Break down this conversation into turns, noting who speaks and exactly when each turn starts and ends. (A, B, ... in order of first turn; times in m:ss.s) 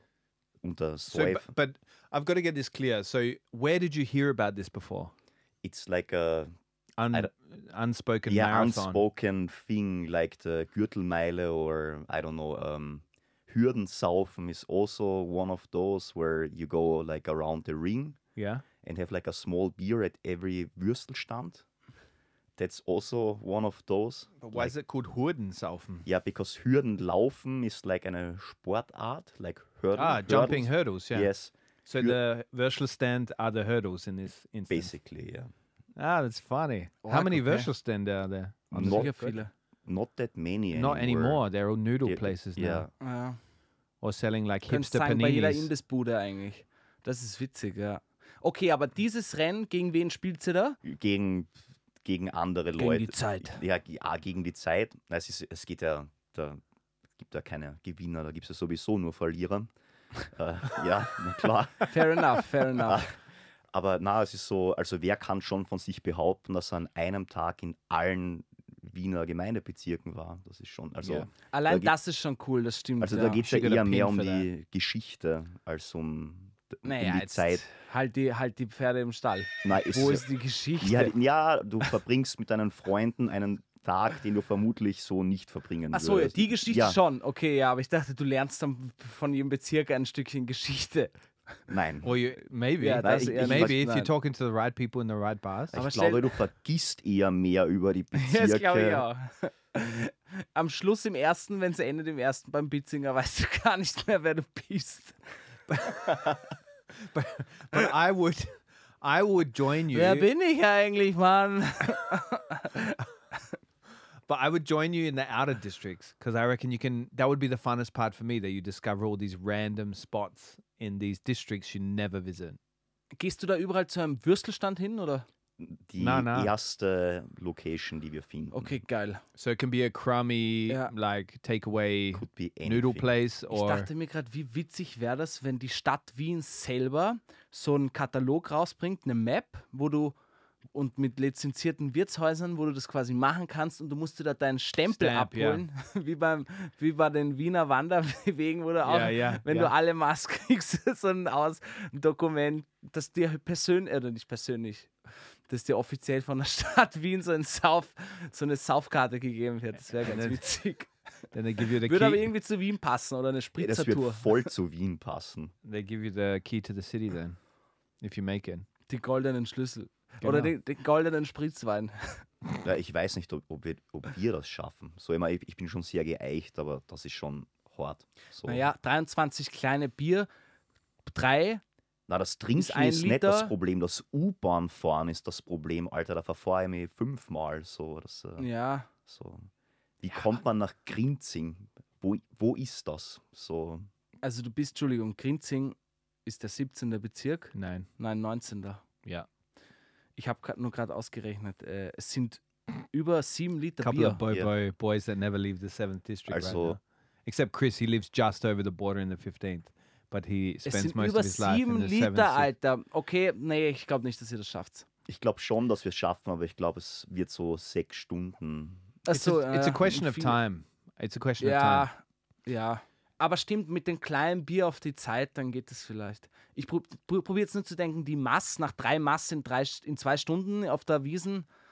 0:00.6-0:01.5 A
0:01.1-0:05.1 B
0:05.6-0:06.5 A
0:07.0-0:09.0 B
0:08.3-0:18.2 A
0:18.4-0:18.6 B
0:18.8-0:21.6 A
0:22.6-0:24.7 A
0:24.4-0:26.1 B
0:26.0-0:32.2 A
0:29.9-0:31.3 B
0:31.8-0:34.9 B
0:34.7-0:35.5 A
0:36.0-0:39.4 B
0:37.0-0:37.7 C
0:38.7-0:39.1 A
0:38.7-0:39.5 C
0:39.8-0:41.4 A
0:40.7-0:42.9 B
0:42.0-0:42.9 A
0:43.0-0:43.4 C
0:44.0-0:45.7 B
0:44.7-0:50.8 C
0:50.8-0:56.6 A
0:52.8-0:53.6 C
0:57.2-0:59.7 A
1:00.2-1:02.0 A
1:01.9-1:03.0 C
1:02.7-1:03.2 A
1:03.7-1:11.9 A
1:11.0-1:11.3 B
1:11.5-1:13.4 C
1:13.0-1:17.6 A
1:13.4-1:14.5 B
1:16.8-1:21.1 C
1:19.6-1:20.3 A
1:20.8-1:27.0 A
1:25.9-1:31.1 C
1:31.7-1:32.2 A
1:32.0-1:35.8 B
1:32.8-1:34.1 C
1:33.0-1:33.8 A
1:35.7-1:39.0 A
1:35.7-1:36.3 C
1:38.1-1:45.2 C
1:45.7-1:46.4 B
1:47.0-1:50.3 B
1:49.9-1:53.0 C
1:54.3-2:02.6 B
2:03.1-2:05.2 C
2:05.6-2:08.8 A
2:06.0-2:06.5 B
2:08.5-2:09.2 C
2:09.4-2:13.9 B
2:10.7-2:10.9 C
2:12.1-2:13.1 A
2:13.5-2:20.2 C
2:20.7-2:34.9 C
2:24.9-2:25.6 B
2:28.8-2:29.7 B
2:35.5-2:40.9 C
2:39.9-2:40.5 B
2:41.3-2:42.3 B
2:41.8-2:44.5 C
2:43.6-2:45.5 A
2:45.6-2:47.4 B
2:48.0-2:48.6 B
2:48.9-2:52.2 C
2:50.2-2:50.5 B
2:52.6-2:58.7 A
2:58.4-3:00.3 C
3:01.1-3:01.6 C
3:02.1-3:09.5 A
3:02.6-3:03.5 C
3:08.4-3:08.9 C
3:10.0-3:13.9 A
3:14.2-3:18.8 C
3:17.5-3:17.9 B
3:20.2-3:24.2 C
3:23.8-3:32.5 B
3:26.3-3:26.8 A
3:30.6-3:34.8 C
3:35.1-3:38.9 A
3:39.0-3:40.4 C
3:39.1-3:41.9 B
3:41.4-3:51.4 C